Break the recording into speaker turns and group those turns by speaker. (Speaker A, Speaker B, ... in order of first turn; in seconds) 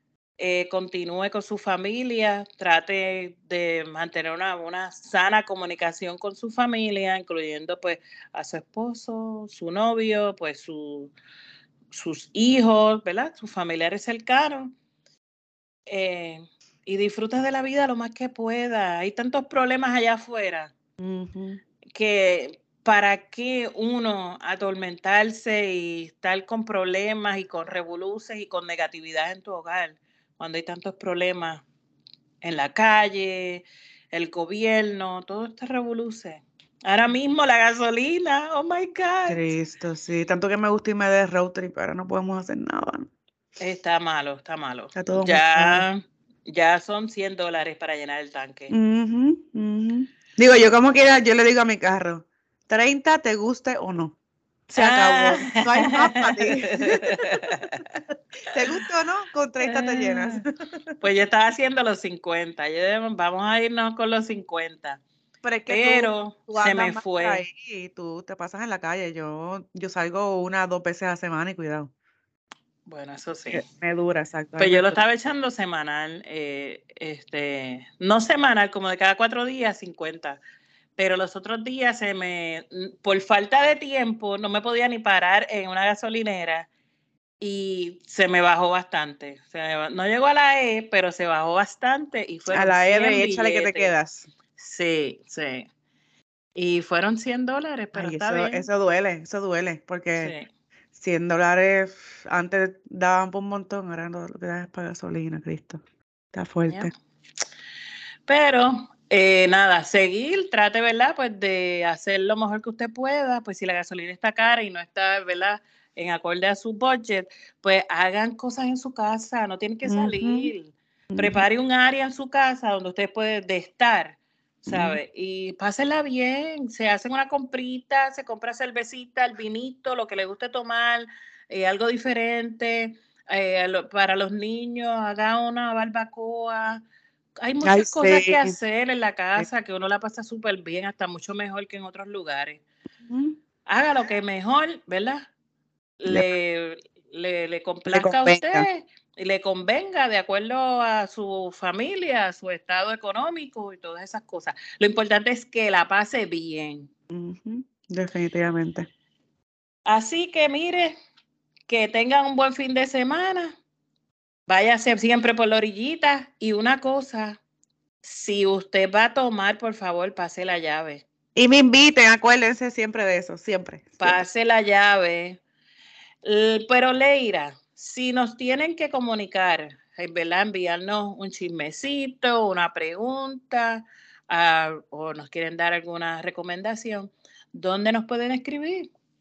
Speaker A: 0.4-11.1, 11.9-14.8, 15.9-20.7, 21.9-31.6, 32.4-39.5, 43.6-48.7, 54.8-57.8, 59.6-60.4, 61.0-65.0, 65.7-67.4, 72.9-73.6, 74.6-80.4, 81.0-86.7, 87.4-93.9, 94.6-95.7, 96.6-98.7, 100.2-100.5, 108.3-136.8, 137.4-142.6, 143.7-145.3, 146.0-156.9, 159.9-160.9, 161.7-163.6, 164.5-167.4, 168.0-171.0, 174.0-175.4, 176.2-188.9
Speaker B: 21.0-21.6, 39.3-43.1, 45.0-45.9, 48.7-54.2, 54.7-57.1, 58.5-61.0, 65.4-71.9, 73.5-75.0, 92.5-94.3, 97.9-100.3, 101.0-105.8, 106.3-106.9, 119.8-120.5, 121.1-121.4, 124.7-125.0, 137.6-138.6, 143.0-143.4, 147.9-148.7, 157.1-158.9, 171.4-174.3